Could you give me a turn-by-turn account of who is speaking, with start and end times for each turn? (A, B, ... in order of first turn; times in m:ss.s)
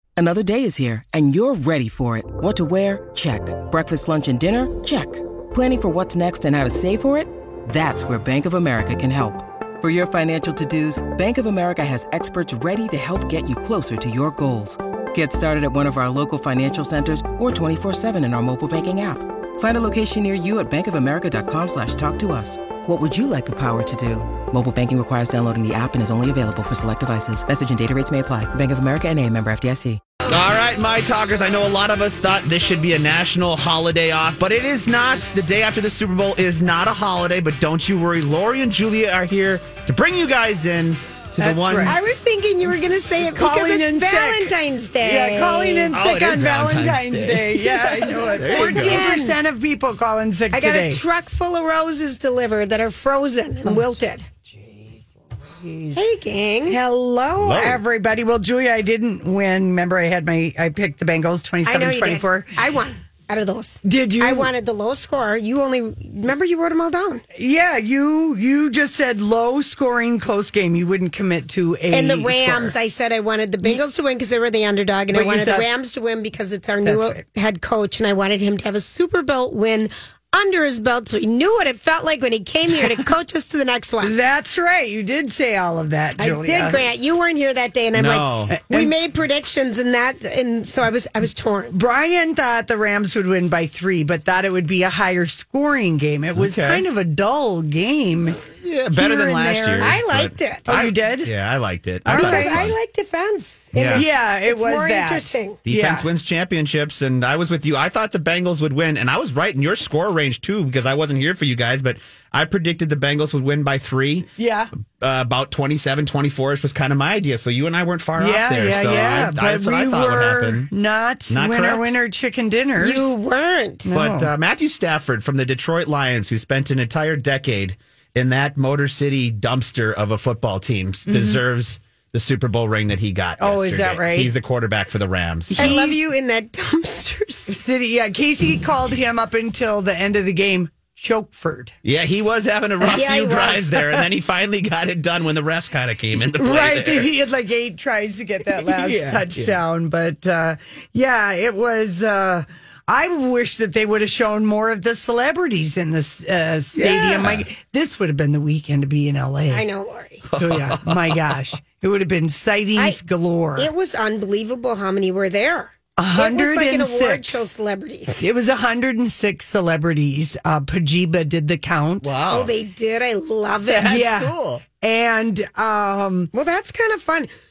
0:00.2-0:30.0 A
0:30.3-0:42.0 B
0:41.4-0:42.0 C
0:41.8-0:45.9 D
0:43.3-0:51.0 C
0:45.9-0:49.1 B
0:48.4-0:49.4 D
0:50.5-0:54.3 D
0:53.6-0:56.0 C
0:55.9-0:56.8 D
0:56.7-1:02.5 C
0:57.4-0:57.8 B
1:01.6-1:07.2 D
1:03.8-1:04.5 C
1:07.3-1:12.7 C
1:11.9-1:24.1 D
1:15.1-1:15.7 C
1:16.8-1:17.2 C
1:24.0-1:26.8 C
1:26.2-1:31.8 D
1:27.9-1:28.5 B
1:28.5-1:28.9 C
1:31.7-1:40.0 C
1:36.3-1:36.8 B
1:38.5-1:42.7 B
1:39.8-1:40.7 D
1:40.7-1:41.3 C
1:42.0-1:42.7 C
1:42.1-1:45.6 D
1:43.7-1:44.0 B
1:43.9-1:46.1 C
1:45.6-1:54.3 B
1:54.4-1:54.7 C
1:54.9-2:00.7 B
1:58.2-2:03.1 C
2:01.3-2:01.9 B
2:02.8-2:03.9 D
2:03.8-2:04.3 C
2:03.9-2:15.8 B
2:11.1-2:11.4 C
2:13.4-2:14.3 C
2:15.5-2:16.0 C
2:15.6-2:17.5 D
2:17.5-2:21.7 C
2:21.8-2:27.1 B
2:22.9-2:23.9 D
2:26.4-2:39.6 C
2:28.5-2:29.6 B
2:36.7-2:37.4 B
2:39.5-2:40.3 D
2:40.3-2:41.3 B
2:40.4-2:43.7 C
2:43.6-2:48.2 D
2:46.0-2:47.4 C
2:48.2-2:52.1 C
2:52.0-2:52.5 B
2:52.2-2:54.0 D
2:53.7-2:54.6 B
2:53.8-2:56.3 C
2:56.3-2:57.3 D